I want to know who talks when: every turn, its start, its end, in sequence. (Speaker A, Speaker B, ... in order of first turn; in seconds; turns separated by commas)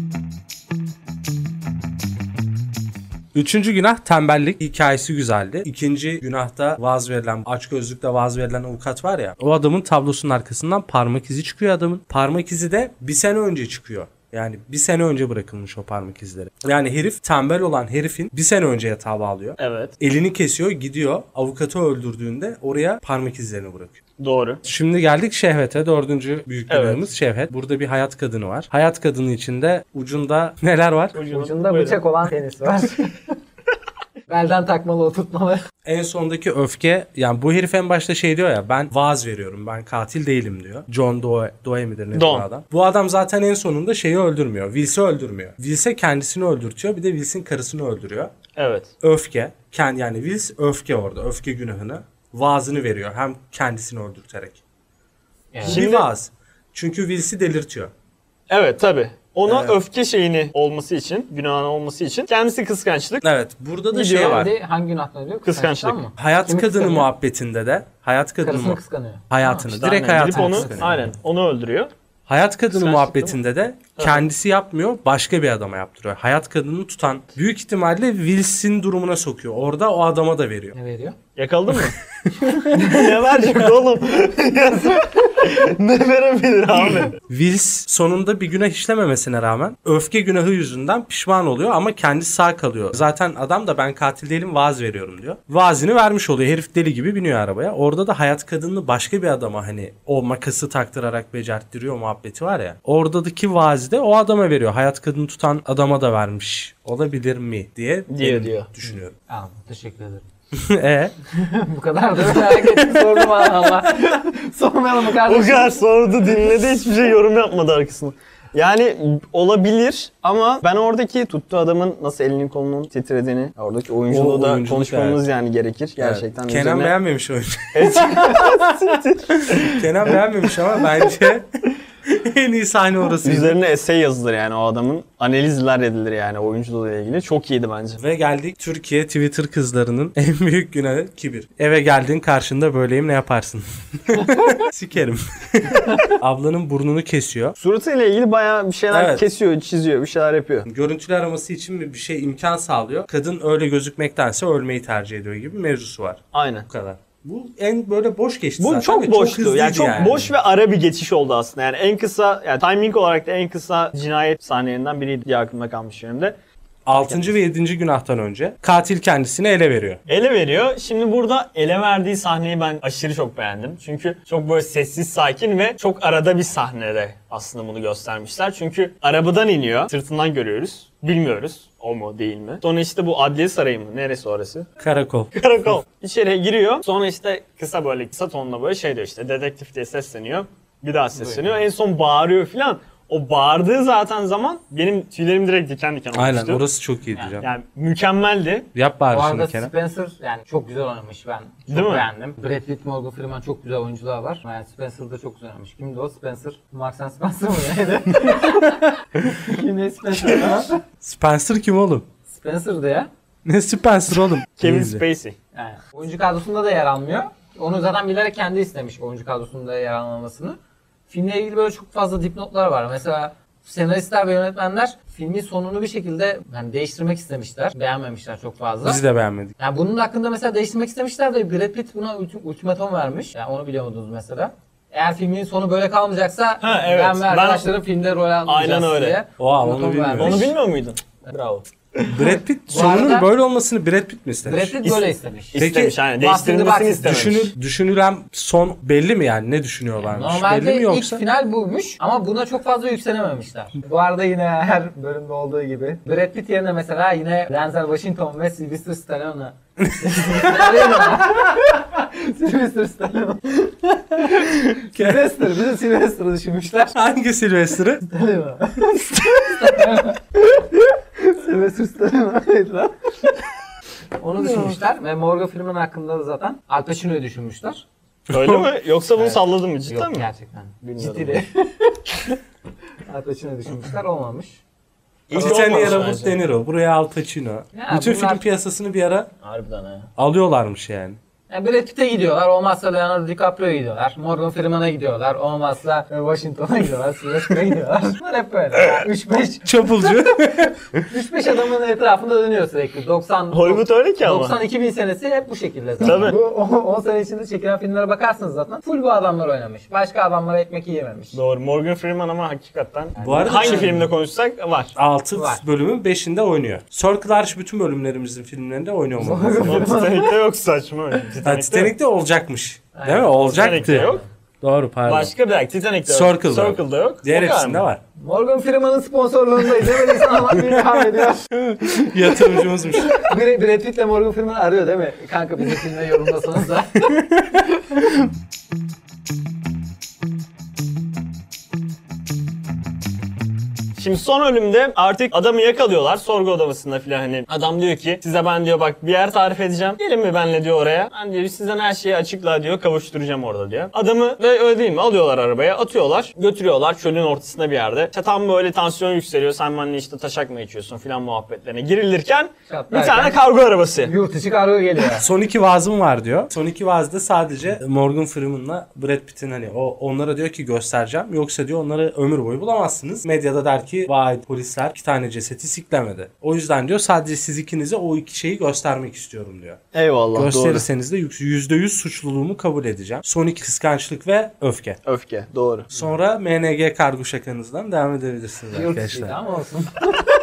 Speaker A: 3.3-24.0, Speaker B: 19.6-19.9, Speaker B: 24.2-24.6, Speaker A: 24.6-31.2, Speaker B: 26.7-27.0, Speaker B: 31.1-32.0, Speaker C: 31.3-33.2, Speaker C: 34.3-35.6, Speaker A: 35.9-48.3, Speaker B: 42.1-42.5, Speaker B: 48.6-48.9, Speaker A: 49.0-54.6, Speaker C: 55.5-55.8, Speaker B: 55.6-56.1, Speaker A: 55.6-57.9, Speaker B: 58.5-63.2, Speaker A: 59.5-59.8, Speaker A: 63.2-64.5, Speaker C: 63.9-67.1, Speaker B: 64.0-64.4, Speaker B: 65.5-66.0, Speaker A: 66.2-68.8, Speaker C: 68.4-69.6, Speaker A: 69.3-70.9, Speaker B: 69.7-71.9, Speaker C: 70.2-71.0, Speaker A: 72.3-80.8, Speaker B: 72.7-73.3, Speaker B: 74.0-74.2, Speaker C: 80.7-81.2, Speaker B: 81.4-82.0, Speaker A: 82.3-82.8, Speaker B: 82.5-87.1, Speaker C: 82.7-83.0, Speaker A: 87.3-109.2, Speaker B: 108.1-108.7, Speaker C: 109.3-110.2, Speaker A: 110.5-111.1, Speaker C: 111.3-115.8, Speaker A: 112.3-113.7, Speaker B: 115.2-127.0, Speaker A: 124.1-125.2, Speaker A: 126.0-128.8, Speaker B: 127.7-130.2, Speaker A: 129.5-131.5, Speaker A: 132.1-133.6, Speaker B: 133.2-138.0, Speaker A: 138.0-147.6, Speaker B: 147.6-150.7, Speaker A: 148.9-149.2, Speaker A: 150.7-160.3, Speaker B: 156.3-156.7, Speaker B: 158.6-166.3, Speaker A: 166.9-170.0, Speaker B: 167.0-167.3, Speaker B: 170.1-184.7, Speaker A: 184.8-185.3, Speaker B: 185.3-196.6, Speaker C: 191.2-191.6, Speaker A: 196.1-197.5, Speaker B: 197.4-198.7, Speaker A: 198.8-199.7, Speaker C: 199.1-210.8, Speaker B: 201.7-202.1, Speaker A: 211.0-212.1, Speaker C: 212.3-213.1, Speaker A: 213.4-215.0, Speaker B: 214.6-215.4, Speaker C: 215.5-220.6, Speaker C: 221.1-229.0, Speaker A: 228.8-229.6, Speaker C: 229.6-240.5, Speaker B: 236.6-237.7, Speaker B: 238.5-239.2, Speaker A: 239.4-240.5, Speaker B: 240.2-242.4, Speaker A: 242.1-244.8, Speaker C: 242.7-243.3, Speaker C: 244.4-245.6, Speaker B: 245.5-247.5, Speaker A: 245.6-246.0, Speaker C: 246.2-247.2, Speaker A: 247.0-251.2, Speaker C: 250.0-266.9, Speaker A: 259.9-261.1, Speaker A: 264.9-265.2, Speaker A: 266.9-268.1, Speaker C: 268.1-272.9, Speaker C: 274.2-277.8, Speaker A: 274.4-274.8, Speaker B: 278.3-280.3, Speaker A: 278.3-278.7, Speaker C: 279.2-282.4, Speaker B: 280.8-281.4, Speaker C: 283.1-284.6, Speaker B: 285.3-286.4, Speaker A: 285.3-289.3, Speaker C: 285.4-285.9, Speaker C: 287.7-288.4, Speaker B: 289.4-290.1, Speaker A: 290.2-291.2, Speaker C: 291.5-311.4, Speaker A: 299.6-301.0, Speaker B: 303.5-304.6, Speaker B: 306.0-306.4, Speaker A: 306.1-306.3, Speaker B: 311.3-314.9, Speaker C: 313.2-314.0, Speaker A: 313.2-314.1, Speaker A: 315.0-320.0, Speaker C: 315.4-315.6, Speaker C: 319.2-320.3, Speaker B: 319.6-321.9, Speaker A: 321.4-325.3, Speaker C: 322.9-324.2, Speaker B: 323.5-324.2, Speaker B: 325.1-327.9, Speaker A: 326.1-328.0, Speaker C: 328.2-337.3, Speaker A: 330.4-333.2, Speaker B: 344.0-364.1, Speaker C: 362.7-363.4, Speaker C: 364.0-365.3, Speaker A: 365.2-379.8, Speaker B: 379.9-380.9, Speaker A: 380.4-385.0, Speaker B: 385.1-385.9, Speaker A: 385.9-389.4, Speaker C: 388.7-390.3